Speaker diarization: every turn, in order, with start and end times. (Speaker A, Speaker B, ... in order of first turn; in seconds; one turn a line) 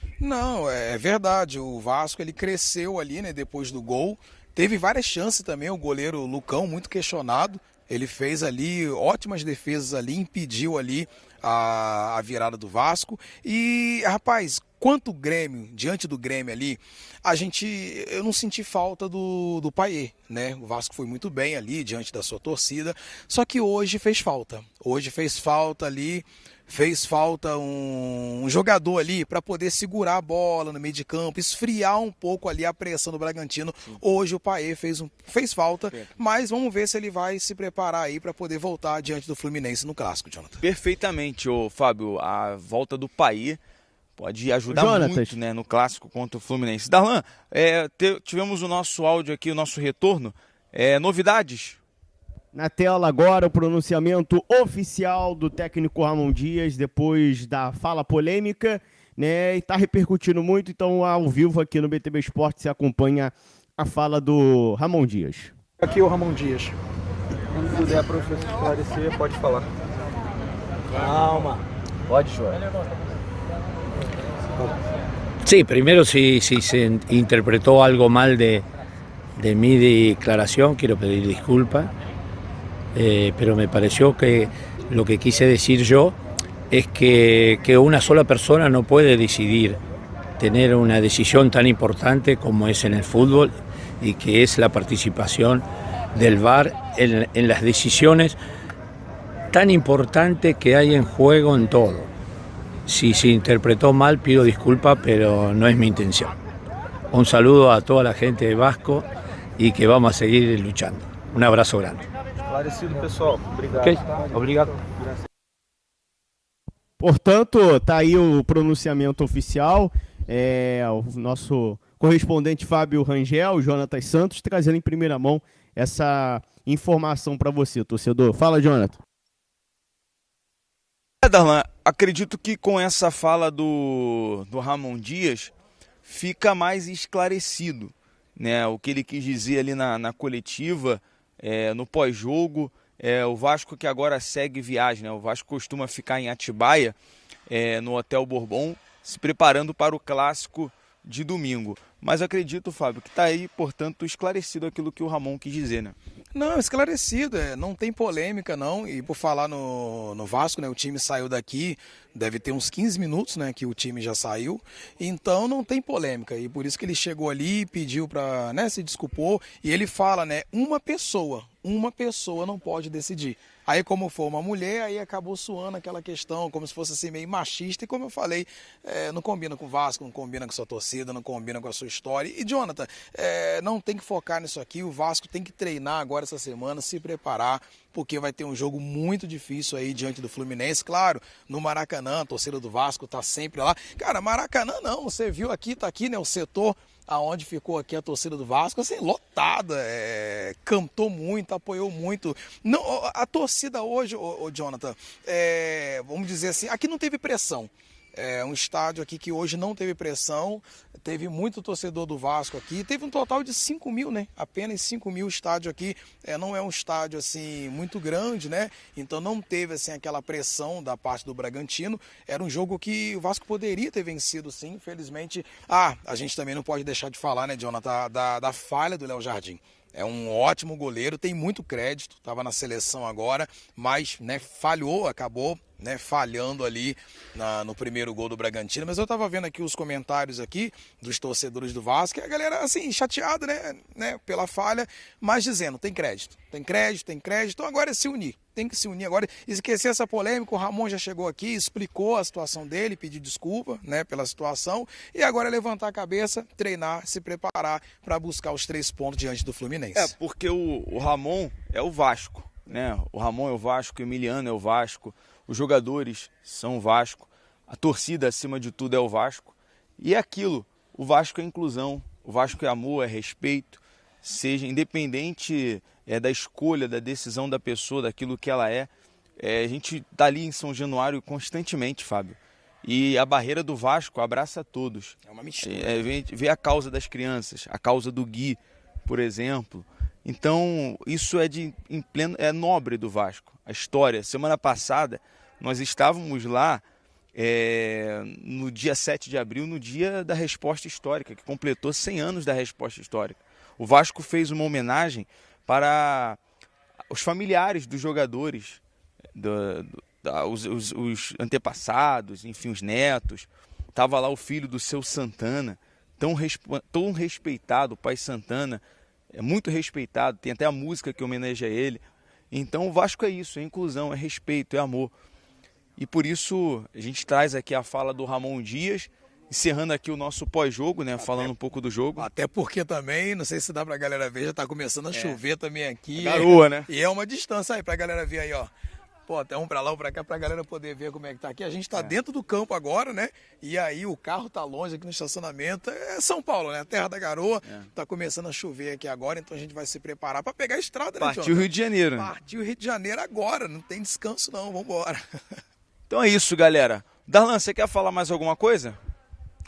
Speaker A: 0.2-40.6
Speaker B: 40.6-43.6
Speaker B: 44.1-51.8
Speaker C: 44.7-45.4
Speaker C: 52.5-65.5
Speaker D: 65.8-66.7
Speaker D: 67.5-69.7
Speaker D: 70.9-72.6
Speaker E: 75.4-78.7
Speaker E: 79.4-81.9
Speaker E: 82.9-86.2
Speaker E: 86.7-89.8
Speaker E: 90.4-98.4
Speaker E: 99.5-102.1
Speaker E: 102.8-106.3
Speaker E: 107.1-112.0
Speaker D: 112.5-114.8
Speaker E: 113.7-114.7
Speaker C: 117.0-129.0
Speaker B: 131.2-135.5
Speaker B: 136.0-146.9
Speaker B: 147.5-155.9
Speaker A: 156.3-260.1
Speaker B: 259.9-296.8
Speaker A: 285.3-286.0
Speaker B: 297.3-306.4
Speaker B: 307.1-308.8
Speaker B: 309.4-318.8
Speaker B: 319.3-325.1
Speaker B: 326.0-332.3
Speaker A: 331.2-331.5
Speaker A: 332.2-338.7
Speaker B: 335.1-335.4
Speaker B: 336.1-336.9
Speaker A: 339.3-355.2
Speaker B: 351.2-352.3
Speaker B: 356.1-359.0